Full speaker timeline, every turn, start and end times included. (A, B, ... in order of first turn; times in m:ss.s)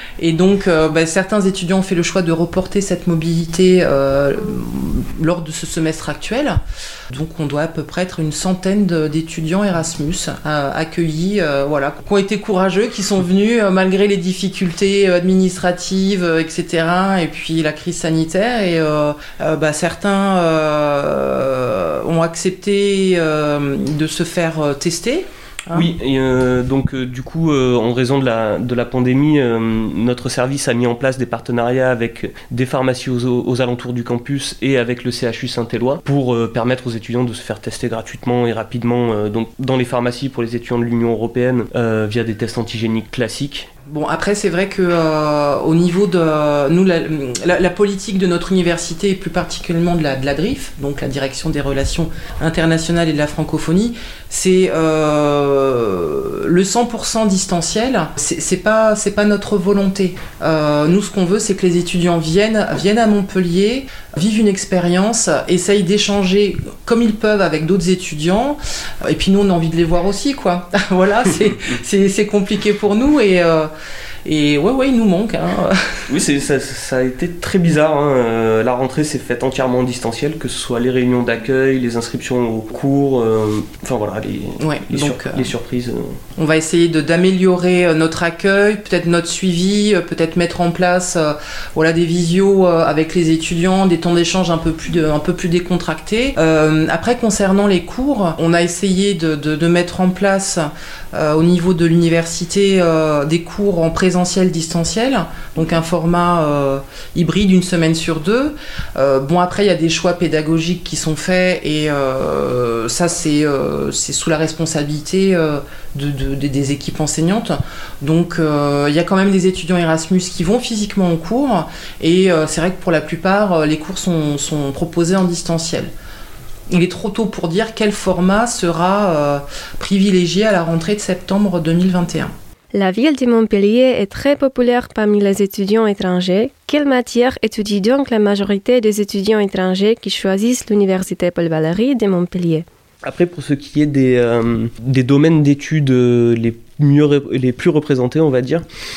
0:00.2-0:25.9 A
0:25.7-0:43.7 B
0:43.9-1:13.7 A
1:14.2-1:16.1 A
1:16.1-1:26.2 B
1:24.6-1:25.5 A
1:26.4-2:05.9 A
2:06.7-2:12.3 A
2:12.7-2:22.6 C
2:23.0-2:28.6 B